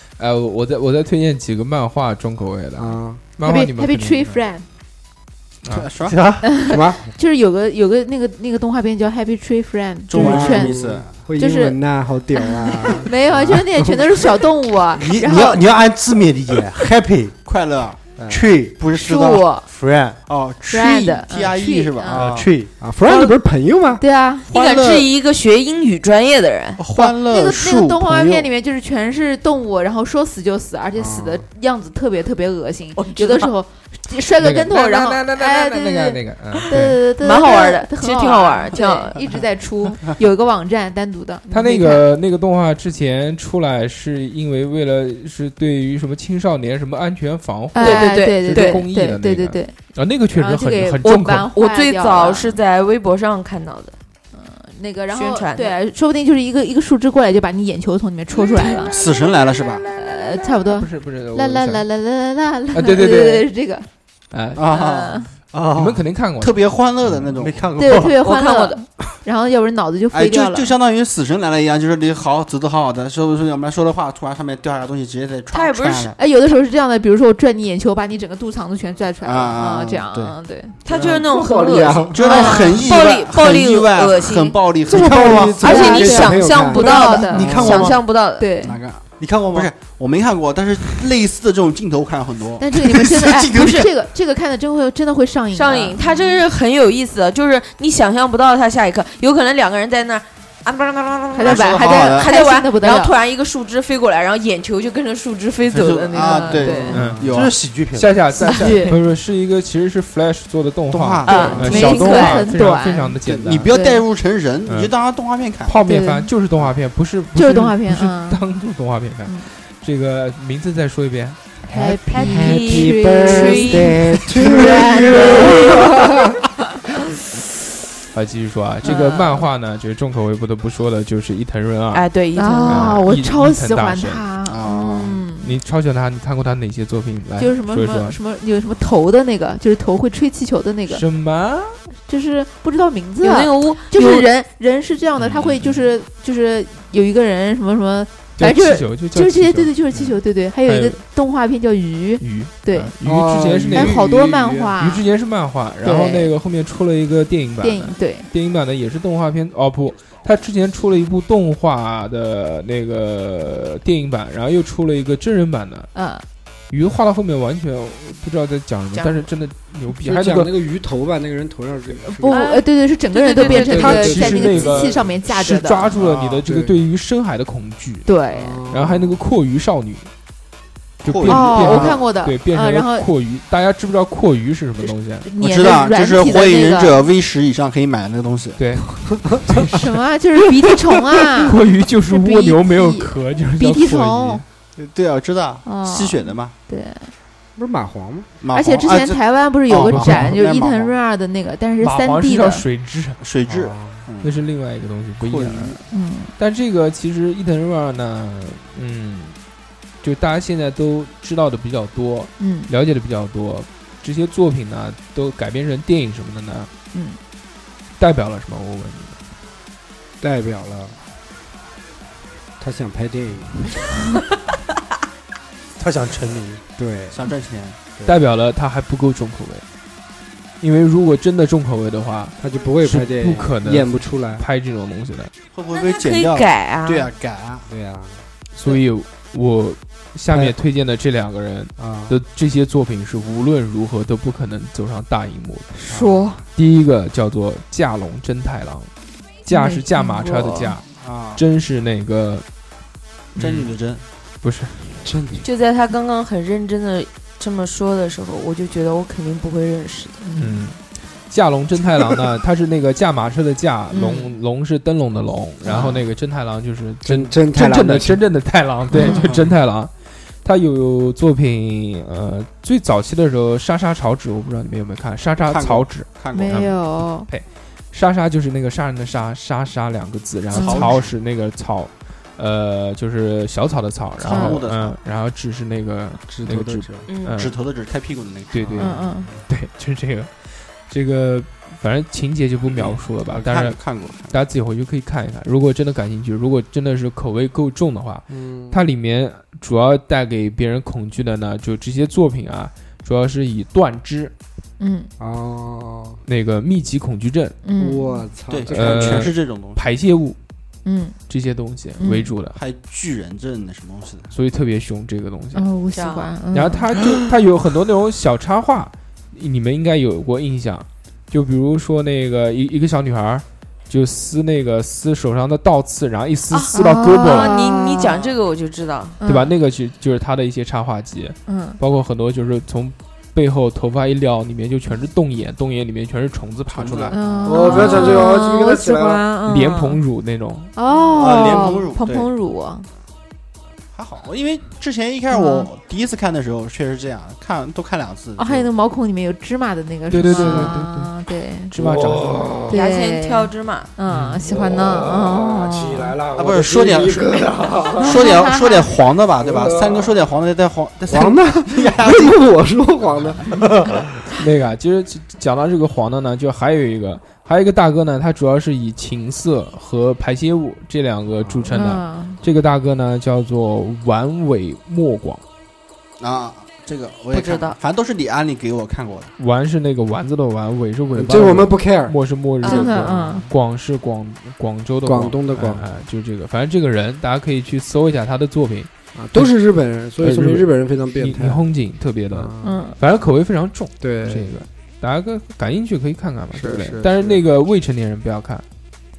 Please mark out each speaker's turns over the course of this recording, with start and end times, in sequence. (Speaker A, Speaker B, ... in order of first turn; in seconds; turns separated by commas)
Speaker A: 0.2-4.4, Speaker B: 2.8-3.2, Speaker C: 3.4-4.7, Speaker D: 5.7-6.2, Speaker E: 6.1-6.5, Speaker C: 6.4-10.8, Speaker B: 6.7-7.0, Speaker D: 10.1-11.2, Speaker B: 10.1-14.1, Speaker C: 11.4-11.8, Speaker C: 12.4-15.7, Speaker E: 15.0-17.4, Speaker D: 17.5-18.0, Speaker B: 18.2-18.5, Speaker E: 18.3-20.2, Speaker C: 18.9-19.7, Speaker D: 20.3-22.5, Speaker C: 20.7-22.2, Speaker E: 22.1-22.7, Speaker B: 22.8-24.0, Speaker C: 24.0-24.5, Speaker D: 24.5-25.1, Speaker F: 24.5-26.8, Speaker D: 26.8-28.5, Speaker C: 27.0-42.1, Speaker B: 31.0-31.4, Speaker F: 33.0-33.5, Speaker A: 34.4-37.0, Speaker F: 37.2-39.2, Speaker A: 41.5-51.5, Speaker C: 47.7-49.8, Speaker F: 47.8-48.8, Speaker C: 50.3-52.6, Speaker F: 51.0-54.0, Speaker C: 54.3-59.0, Speaker F: 55.1-55.8, Speaker D: 58.9-59.9, Speaker C: 59.9-63.9, Speaker A: 60.7-61.9, Speaker A: 62.7-63.5, Speaker A: 64.3-64.6, Speaker D: 64.6-65.2, Speaker C: 64.7-65.3, Speaker E: 65.5-66.0, Speaker A: 65.7-66.6, Speaker D: 66.4-67.7, Speaker E: 67.3-68.2, Speaker C: 67.8-70.7, Speaker F: 68.0-68.8, Speaker D: 70.1-76.2, Speaker F: 75.5-76.1, Speaker C: 76.2-80.8, Speaker D: 79.2-80.4, Speaker F: 80.8-84.6, Speaker B: 80.9-82.2, Speaker D: 82.1-85.6, Speaker C: 82.2-82.9, Speaker B: 84.9-88.0, Speaker E: 85.0-85.6, Speaker F: 85.6-88.5, Speaker C: 85.6-87.6, Speaker E: 87.3-88.0, Speaker C: 88.4-88.8, Speaker D: 88.6-93.6, Speaker E: 89.2-89.7, Speaker C: 92.6-96.4, Speaker F: 95.5-107.0, Speaker C: 101.3-103.2, Speaker D: 101.4-102.3, Speaker D: 105.7-107.6, Speaker C: 106.2-107.1, Speaker B: 106.8-107.2, Speaker A: 106.9-107.3, Speaker E: 107.2-108.3, Speaker A: 107.9-113.7, Speaker C: 108.4-109.0, Speaker D: 110.9-112.1, Speaker C: 111.2-113.2, Speaker F: 111.3-112.4, Speaker D: 113.2-115.8, Speaker C: 113.7-114.0, Speaker A: 115.7-121.4, Speaker C: 115.8-116.3, Speaker C: 117.3-118.4, Speaker C: 121.7-126.0, Speaker B: 121.7-126.2, Speaker F: 122.2-123.9, Speaker A: 128.1-132.1, Speaker C: 128.8-129.4, Speaker F: 131.9-133.0, Speaker C: 132.4-135.5, Speaker A: 132.7-134.3, Speaker D: 134.5-135.2, Speaker A: 135.4-138.2, Speaker C: 137.4-141.0, Speaker A: 140.9-141.8, Speaker C: 142.1-152.9, Speaker F: 143.2-144.3, Speaker A: 145.2-145.8, Speaker A: 148.4-151.0, Speaker A: 152.2-154.0, Speaker B: 153.0-154.7, Speaker C: 153.7-155.1, Speaker A: 154.8-165.9, Speaker C: 155.8-156.3, Speaker C: 157.6-158.3, Speaker C: 165.9-166.2, Speaker A: 166.7-170.5, Speaker F: 168.9-169.3, Speaker B: 169.9-172.5, Speaker C: 172.1-176.0, Speaker F: 172.3-174.2, Speaker B: 173.4-175.0, Speaker A: 173.6-178.1, Speaker D: 176.0-176.3, Speaker B: 176.4-176.8, Speaker C: 178.1-178.7, Speaker B: 178.3-179.2, Speaker A: 178.7-180.1, Speaker A: 181.0-185.3, Speaker D: 181.0-182.1, Speaker C: 181.2-183.1, Speaker C: 185.2-187.0, Speaker D: 185.4-188.6, Speaker A: 188.6-190.0, Speaker C: 189.6-194.4, Speaker A: 191.1-194.4, Speaker D: 194.8-196.6, Speaker C: 195.6-197.1, Speaker B: 197.6-198.3, Speaker D: 198.4-200.9, Speaker C: 198.5-202.7, Speaker A: 199.8-200.3, Speaker A: 201.8-203.2, Speaker D: 203.2-204.4, Speaker B: 203.5-204.1, Speaker A: 204.2-205.8, Speaker D: 205.2-205.8, Speaker C: 205.9-206.3, Speaker A: 206.4-209.4, Speaker A: 210.0-216.7, Speaker C: 212.4-212.7, Speaker A: 218.0-219.2, Speaker B: 220.2-221.0, Speaker B: 222.6-223.9, Speaker E: 225.8-226.6, Speaker B: 226.8-227.3, Speaker D: 227.1-227.8, Speaker A: 228.1-229.6, Speaker A: 230.6-235.3, Speaker B: 232.4-234.4, Speaker D: 235.5-237.7, Speaker F: 235.7-237.1, Speaker B: 237.7-238.2, Speaker A: 238.6-245.7, Speaker B: 240.3-240.6, Speaker B: 241.8-242.2, Speaker C: 245.8-246.4, Speaker B: 245.9-246.3, Speaker A: 246.6-248.9, Speaker A: 249.5-250.8, Speaker C: 249.5-250.8, Speaker D: 250.9-251.4, Speaker A: 251.4-252.4, Speaker A: 253.4-253.7, Speaker D: 253.4-254.0, Speaker A: 254.4-255.1, Speaker B: 255.0-255.4, Speaker F: 255.4-260.2, Speaker C: 260.2-260.6, Speaker A: 260.4-269.9, Speaker F: 264.0-264.3, Speaker B: 267.0-268.2, Speaker C: 268.9-269.3, Speaker D: 269.2-269.5, Speaker A: 270.4-287.6, Speaker D: 275.5-276.7, Speaker C: 276.3-277.3, Speaker C: 280.5-280.9, Speaker D: 280.6-281.1, Speaker D: 284.2-285.0, Speaker C: 284.3-284.6, Speaker B: 286.3-287.1, Speaker F: 287.1-287.4, Speaker D: 287.3-288.9, Speaker A: 288.5-304.3, Speaker B: 288.7-289.2, Speaker C: 288.8-289.3, Speaker D: 292.7-294.4, Speaker B: 298.3-298.8, Speaker C: 304.8-305.1, Speaker B: 305.2-306.2, Speaker A: 306.3-307.6, Speaker C: 307.6-308.3, Speaker B: 307.8-309.3, Speaker D: 308.5-309.8, Speaker A: 308.7-310.4, Speaker C: 310.9-311.2, Speaker A: 311.3-312.6, Speaker C: 312.0-312.3, Speaker D: 312.5-314.3, Speaker A: 314.3-315.7, Speaker C: 315.5-316.9, Speaker F: 315.9-316.3, Speaker A: 316.5-327.5, Speaker F: 326.5-329.2, Speaker C: 326.7-328.2, Speaker C: 329.2-329.5, Speaker A: 329.2-337.1, Speaker C: 331.5-331.8, Speaker D: 336.7-337.6, Speaker C: 337.1-340.0, Speaker B: 337.4-339.2, Speaker A: 339.4-340.7, Speaker C: 340.8-342.9, Speaker D: 341.1-342.3, Speaker D: 343.9-348.7, Speaker C: 345.3-345.7, Speaker C: 348.4-351.7, Speaker A: 350.1-351.1, Speaker B: 350.4-350.7, Speaker A: 351.7-352.6, Speaker B: 351.8-352.7, Speaker C: 352.7-356.2, Speaker F: 352.7-353.9, Speaker A: 354.1-354.4, Speaker B: 354.5-358.3, Speaker D: 356.4-357.4, Speaker D: 358.0-362.4, Speaker C: 358.0-358.9, Speaker B: 359.4-360.1, Speaker B: 361.1-364.0, Speaker A: 364.4-375.4, Speaker C: 371.7-372.4, Speaker D: 376.2-379.3, Speaker F: 377.3-377.8, Speaker A: 379.4-389.5, Speaker B: 381.1-382.2, Speaker C: 382.6-383.5, Speaker F: 382.6-382.9, Speaker B: 385.1-385.9, Speaker B: 389.1-391.6, Speaker A: 390.2-398.6, Speaker B: 392.3-392.8, Speaker C: 392.6-393.0, Speaker B: 394.0-394.6, Speaker B: 396.5-397.4